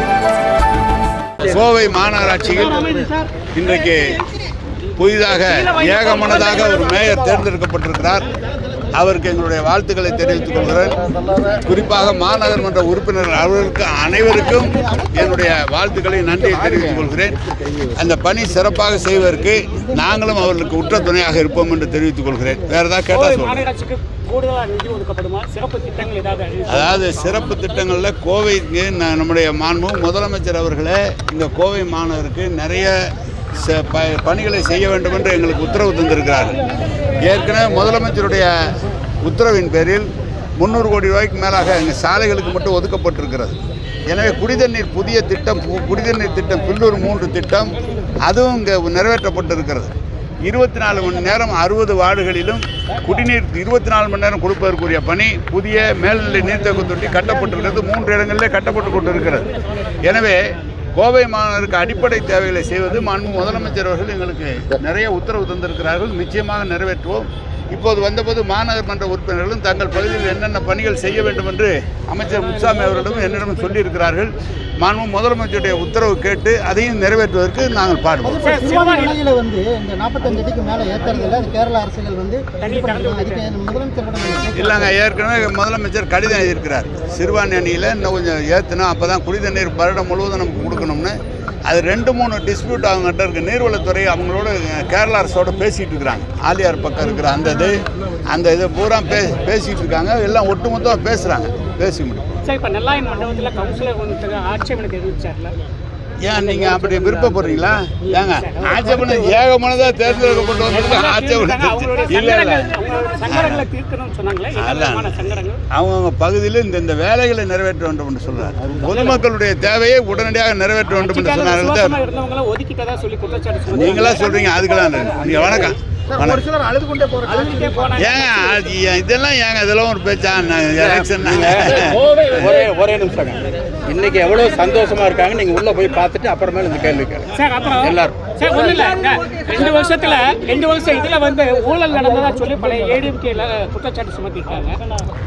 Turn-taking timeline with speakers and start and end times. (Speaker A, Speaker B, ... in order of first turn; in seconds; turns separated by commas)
Speaker A: 1.4-3.0, Speaker A: 3.5-4.2, Speaker A: 5.0-8.3, Speaker A: 8.9-11.0, Speaker A: 11.5-17.4, Speaker A: 17.9-23.6, Speaker B: 23.1-27.0, Speaker A: 26.7-36.5, Speaker A: 37.2-38.5, Speaker A: 39.2-49.9, Speaker A: 50.5-59.5, Speaker A: 60.0-60.4, Speaker A: 61.0-78.4, Speaker C: 78.2-84.7, Speaker B: 78.4-79.2, Speaker B: 82.6-83.6, Speaker A: 84.5-102.4, Speaker B: 102.4-105.5, Speaker A: 106.2-112.7, Speaker B: 106.6-107.4, Speaker B: 108.0-109.4, Speaker B: 110.1-115.6, Speaker A: 113.3-113.7, Speaker A: 114.6-122.0, Speaker B: 118.9-119.2, Speaker B: 120.9-124.3, Speaker A: 123.7-126.5, Speaker B: 127.1-128.4, Speaker A: 128.0-132.0, Speaker D: 130.9-138.2, Speaker B: 137.3-144.8